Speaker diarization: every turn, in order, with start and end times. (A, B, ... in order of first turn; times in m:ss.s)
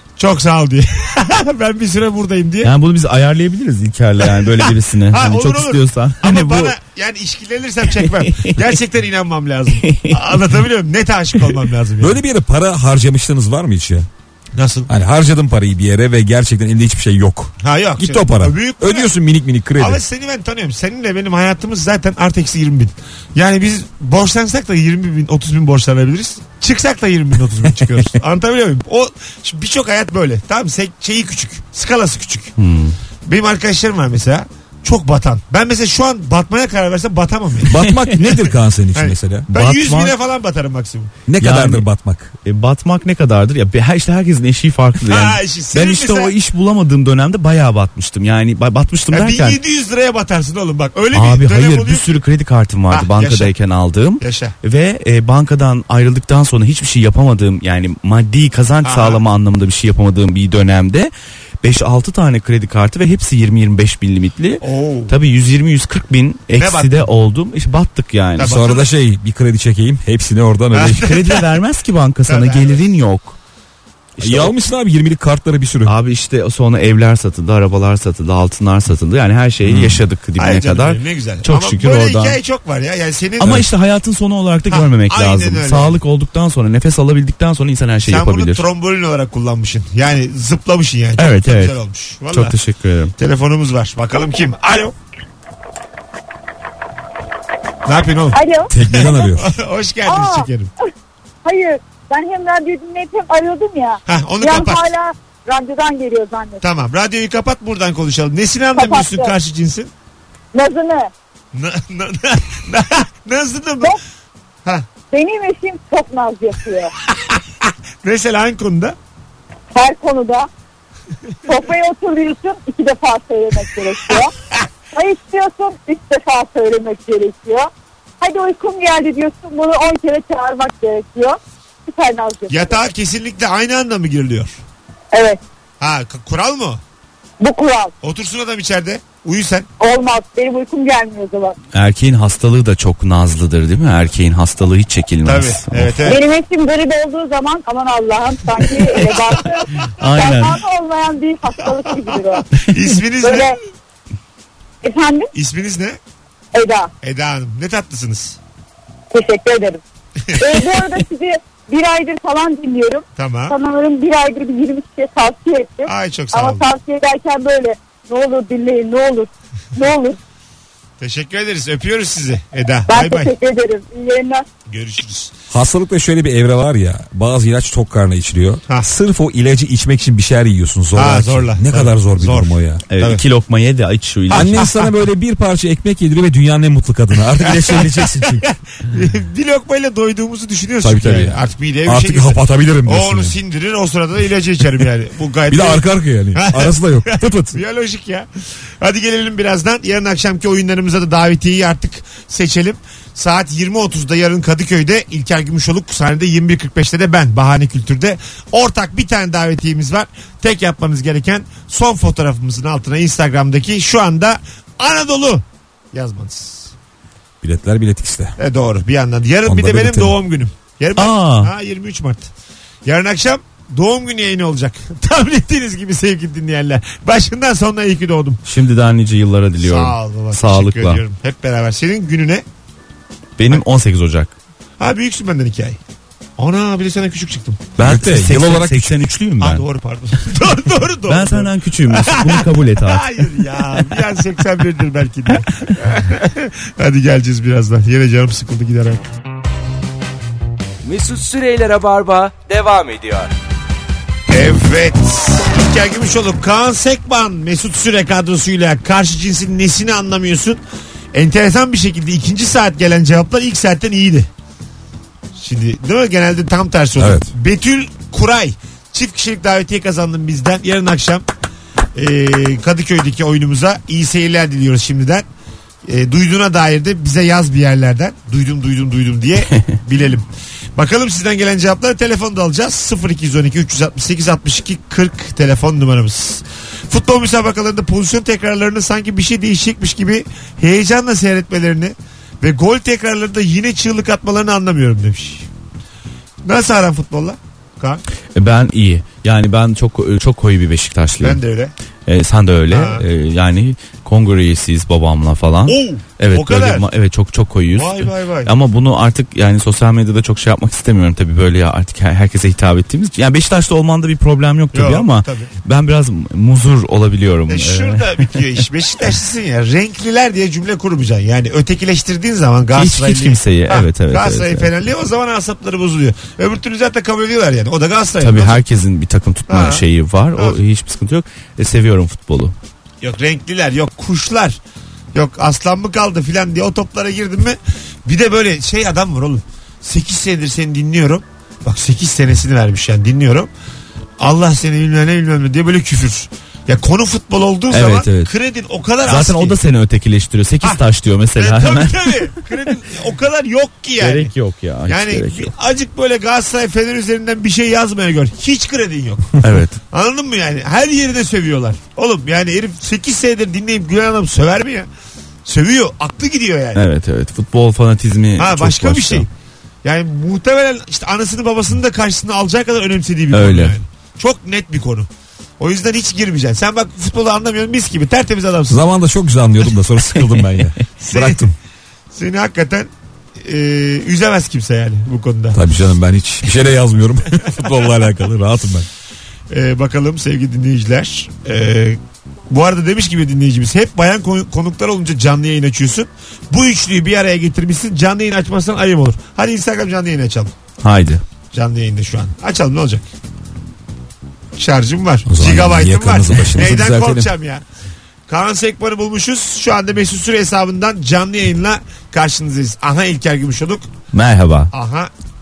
0:00.2-0:02.7 A
0:02.6-0:06.8 B
0:05.1-0:12.2 A
0:08.0-0:08.6 B
0:09.8-0:10.3 B
0:12.0-0:14.1 C
0:14.5-0:14.9 A
0:14.9-0:20.0 C
0:17.6-0:19.1 A
0:19.8-0:32.5 A
0:32.6-0:33.0 B
0:33.2-0:38.4 A
0:37.6-0:39.5 C
0:37.7-0:38.2 B
0:38.9-0:41.1 A
0:39.5-0:40.1 B
0:41.3-0:42.3 C
0:41.4-0:41.9 B
0:42.4-0:49.6 B
0:45.0-0:46.3 A
0:49.1-0:52.2 A
0:51.1-1:08.6 B
0:52.9-0:53.5 A
0:54.2-0:54.5 A
0:58.8-0:59.2 A
1:04.6-1:05.2 A
1:06.6-1:07.0 A
1:08.4-1:08.9 A
1:08.4-1:11.1 C
1:10.7-1:11.4 A
1:11.0-1:13.4 B
1:12.3-1:12.9 A
1:14.2-1:14.5 B
1:14.2-1:15.9 C
1:15.8-1:22.4 B
1:19.6-1:20.0 C
1:20.4-1:23.6 A
1:23.4-1:28.6 B
1:24.7-1:26.0 A
1:28.0-1:32.5 A
1:31.2-1:31.8 B
1:32.3-1:33.1 B
1:33.2-1:35.0 A
1:37.8-1:40.7 A
1:38.3-1:39.1 D
1:38.7-1:39.5 C
1:40.0-1:40.5 D
1:41.4-1:46.6 D
1:44.1-1:44.8 A
1:46.6-1:49.9 A
1:48.7-1:49.3 D
1:50.5-1:51.1 D
1:51.5-1:54.0 A
1:55.1-1:56.9 D
1:57.3-1:59.0 A
1:59.7-2:00.5 D
2:01.5-2:04.3 D
2:04.9-2:07.7 D
2:08.2-2:12.8 D
2:12.5-2:14.6 A
2:15.1-2:15.4 D
2:15.8-2:16.8 A
2:17.4-2:17.9 D
2:18.0-2:19.7 A
2:19.8-2:21.6 D
2:21.7-2:26.0 B
2:25.2-2:26.2 A
2:26.0-2:32.5 D
2:28.6-2:29.2 A
2:29.9-2:30.6 B
2:31.7-2:33.5 A
2:33.2-2:33.6 D
2:34.8-2:35.3 D
2:35.3-2:36.0 A
2:36.5-2:36.9 D
2:37.0-2:38.4 A
2:39.1-2:39.8 D
2:40.3-2:40.8 A
2:40.4-2:50.2 D
2:43.2-2:43.6 A
2:45.8-2:46.6 A
2:51.0-2:53.3 A
2:52.9-2:54.4 D
2:54.7-2:55.3 A
2:55.5-3:02.8 C
3:00.9-3:03.2 A
3:02.9-3:04.7 B
3:04.3-3:08.4 C
3:04.3-3:04.9 A
3:07.3-3:18.3 A
3:10.8-3:13.4 C
3:15.5-3:17.6 C
3:18.8-3:36.7 A
3:37.4-3:38.4 C
3:38.4-3:42.3 A
3:39.4-3:40.2 C
3:41.0-3:41.5 B
3:42.8-3:48.4 A
3:48.4-3:51.0 B
3:49.6-3:52.4 A
3:53.4-3:54.3 B
3:54.8-3:55.8 A
3:56.4-3:57.6 A
3:57.8-3:59.6 B
3:57.8-3:59.0 C
3:59.4-4:09.0 A
4:01.1-4:03.1 B
4:10.8-4:13.3 E
4:14.3-4:20.6 A
4:21.1-4:24.3 A
4:25.4-4:31.2 A
4:27.0-4:27.3 C
4:31.9-4:35.2 A
4:35.9-4:40.2 A
4:40.8-4:55.4 A
4:56.4-4:58.0 A
4:58.3-5:01.4 B
5:01.2-5:01.7 A
5:02.1-5:18.4 B
5:02.7-5:03.0 A
5:05.7-5:06.9 A
5:07.7-5:08.5 A
5:14.7-5:15.5 A
5:17.5-5:28.6 A
5:22.7-5:24.7 B
5:28.2-5:32.5 B
5:29.5-5:29.8 A
5:33.0-5:34.6 A
5:35.1-5:43.5 A
5:44.2-5:49.6 A
5:47.7-5:48.3 B
5:49.0-5:52.3 B
5:51.4-5:54.3 A
5:54.0-5:55.5 B
5:54.9-6:04.9 A
5:59.4-5:59.8 B
6:05.4-6:06.8 A
6:06.7-6:09.3 B
6:08.4-6:09.3 A
6:09.8-6:15.1 A
6:13.3-6:13.8 B
6:15.6-6:18.8 A
6:18.7-6:21.5 C
6:20.1-6:20.5 B
6:21.0-6:21.5 A
6:22.1-6:22.9 A
6:23.4-6:25.6 A
6:25.5-6:28.9 C
6:29.5-6:40.5 A
6:40.8-6:41.2 B
6:41.5-6:43.0 A
6:44.6-6:47.6 A
6:45.2-6:47.3 C
6:48.3-6:53.8 A
6:54.1-6:54.7 B
6:54.7-6:55.1 A